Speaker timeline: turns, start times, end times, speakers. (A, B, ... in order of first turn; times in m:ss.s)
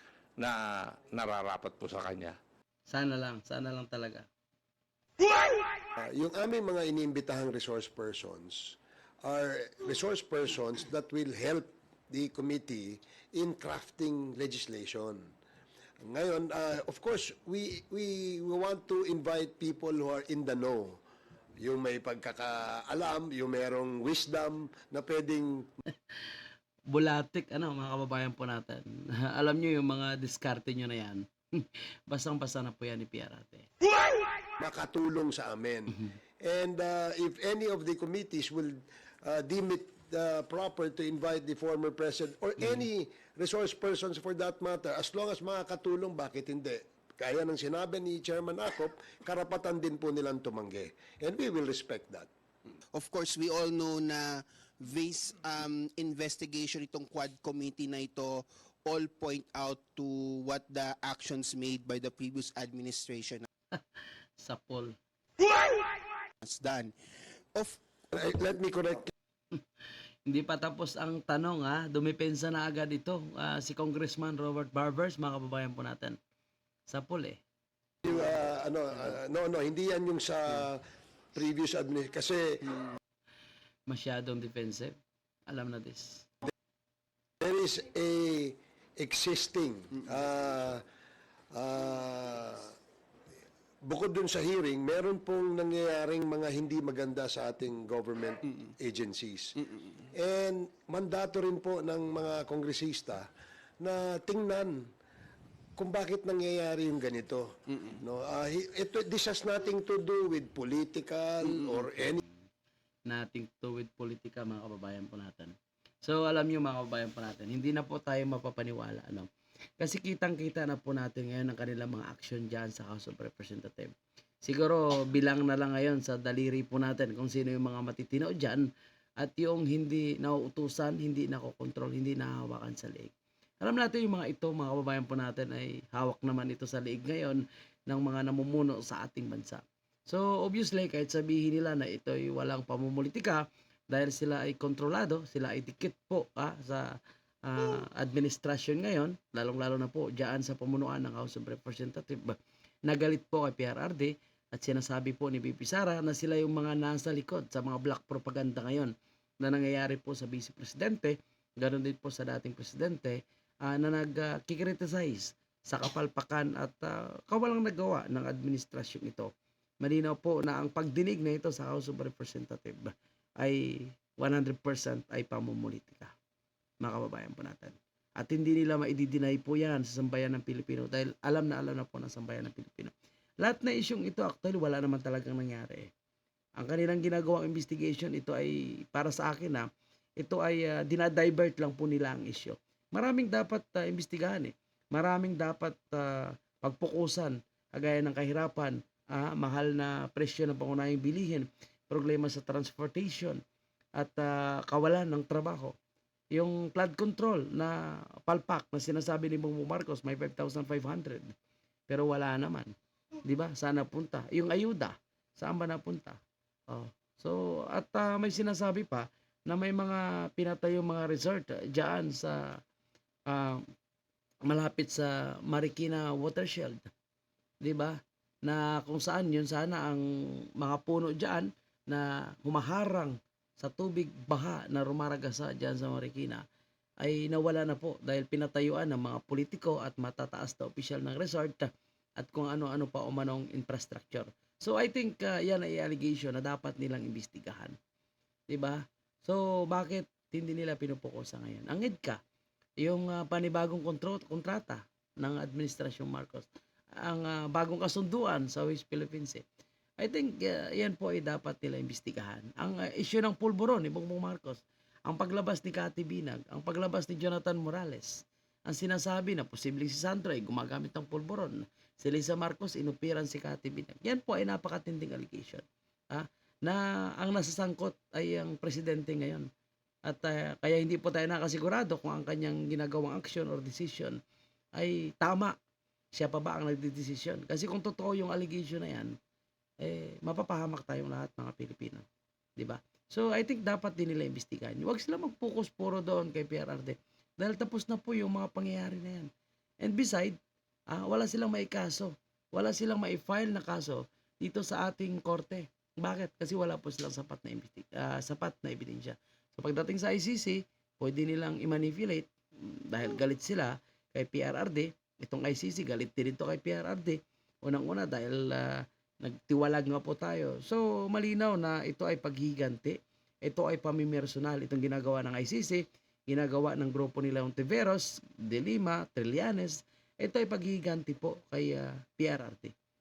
0:00.4-0:02.4 A
0:02.9-0:04.3 B
0:06.0-0:15.3 C
0:16.0-0:21.0 C
0:21.6-0:25.7 C
0:26.9-0:33.7 B
0:34.6-0:52.3 C
0:52.9-1:03.5 D
1:04.4-1:04.9 B
1:06.4-1:07.0 D
1:07.5-1:07.8 D
1:08.1-1:09.1 C
1:10.3-1:16.2 B
1:16.9-1:17.4 B
1:18.0-1:20.8 C
1:21.4-1:22.8 C
1:23.9-1:25.0 B
1:25.5-1:26.3 B
1:27.4-1:30.8 C
1:31.5-1:32.7 C
1:33.8-1:39.6 C
1:40.1-1:43.3 C
1:43.8-1:44.8 C
1:45.8-1:52.2 C
1:53.1-2:08.7 B
2:09.2-2:49.3 B
2:49.8-2:56.1 B
2:56.8-3:05.9 B
3:06.6-3:09.7 B
3:10.2-3:23.4 B
3:24.0-3:25.7 B
3:26.3-3:31.3 B
3:31.9-3:32.7 B
3:33.2-3:42.6 B
3:43.3-3:43.6 B
3:44.5-3:46.9 B
3:47.6-3:56.4 B
3:57.0-4:07.8 B
4:08.5-4:12.2 B
4:12.8-4:19.4 B
4:20.0-4:39.5 B
4:40.1-4:44.2 B
4:44.8-4:45.6 B
4:46.1-4:49.1 B
4:49.8-4:52.0 B
4:52.6-4:59.3 B
4:59.8-5:00.4 B
5:00.9-5:32.7 B